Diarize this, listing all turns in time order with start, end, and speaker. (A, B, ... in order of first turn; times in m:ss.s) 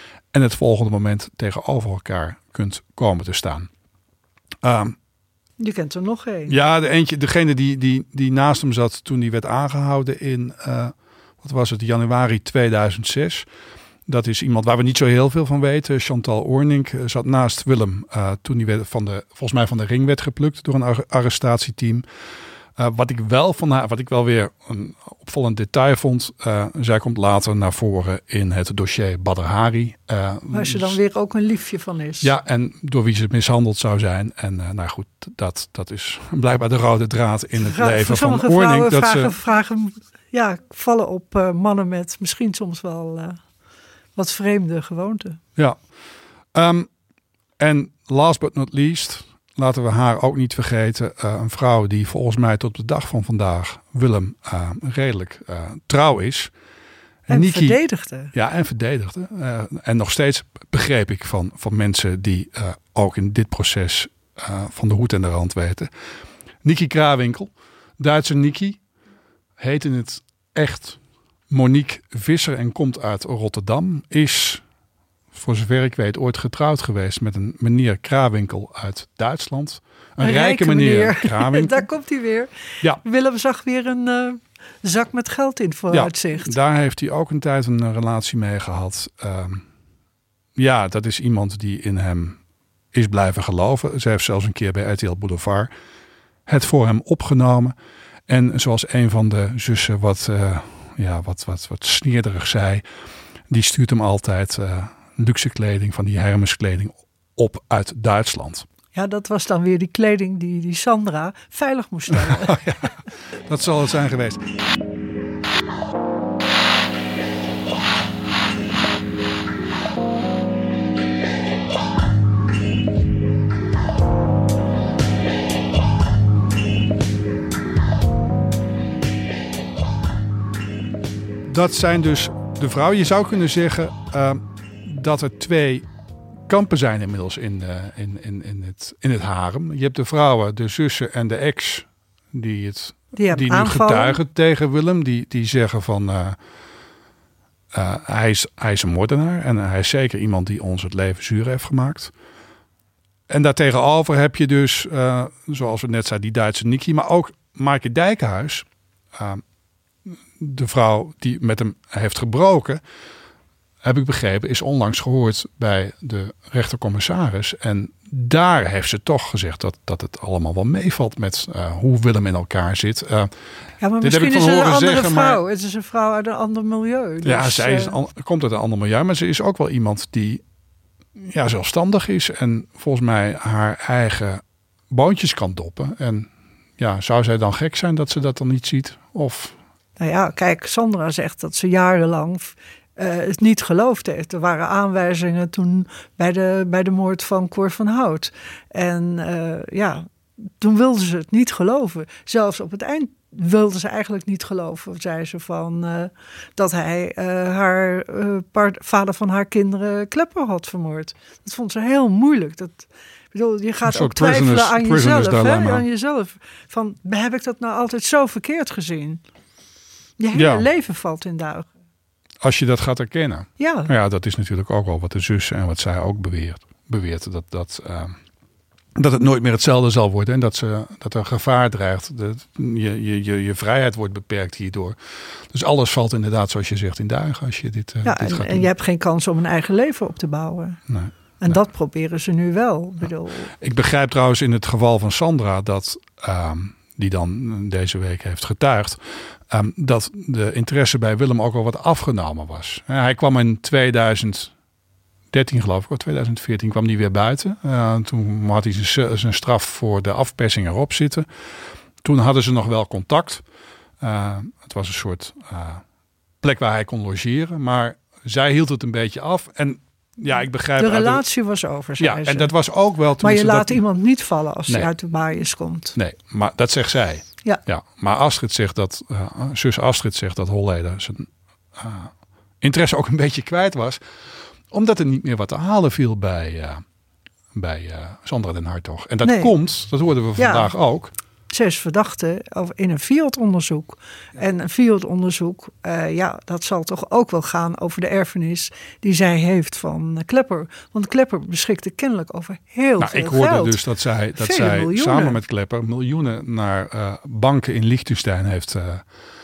0:00.3-0:03.7 A
0:04.6-0:05.0 A
0:05.6-0:06.5 B
0:06.5-0:13.5 A
0:14.1-0:22.0 A
0:22.8-0:31.0 A
0:30.5-0:32.3 B
0:32.2-0:39.3 A
0:37.6-0:43.4 B
0:44.2-0:45.4 B
0:46.5-0:46.9 A
0:47.6-0:56.5 A
0:57.3-0:57.8 A
0:57.3-0:58.3 B
0:58.3-1:05.9 A
1:06.6-1:08.8 A
1:09.6-1:14.6 A
1:15.3-1:21.8 A
1:20.2-1:26.6 B
1:25.9-1:29.6 A
1:30.6-1:32.4 A
1:32.9-1:35.7 A
1:36.4-1:37.7 A
1:38.3-1:42.8 A
1:43.5-1:48.6 A
1:48.9-1:52.6 B
1:52.1-1:54.4 A
2:11.4-2:15.9 A
2:16.5-2:26.4 A
2:23.2-2:24.2 B
2:27.7-2:32.1 A
2:33.3-2:39.4 A
2:40.0-2:42.8 A
2:43.8-2:53.3 A
2:53.8-2:58.0 B
2:54.0-2:55.4 A
2:57.2-3:00.4 A
3:01.2-3:09.5 A
3:10.0-3:20.1 B
3:20.6-3:39.2 B
3:33.8-3:35.8 A
3:40.2-3:41.7 B
3:40.3-3:40.7 A
3:42.4-3:48.2 A
3:43.6-3:43.9 B
3:48.9-3:58.7 A
3:58.0-4:00.8 B
4:00.9-4:01.6 A
4:01.4-4:03.5 B
4:03.6-4:14.5 A
4:15.3-4:21.3 A
4:22.0-4:23.4 A
4:24.0-4:25.8 A
4:26.4-4:31.2 A
4:30.8-4:32.5 B
4:32.0-4:33.8 A
4:33.2-4:36.0 B
4:36.0-4:44.0 A
4:44.7-4:46.8 A
4:47.5-4:51.1 A
4:49.2-4:49.5 B
4:50.4-4:50.7 B
4:51.5-5:03.8 B
5:03.0-5:09.0 A
5:04.4-5:05.4 B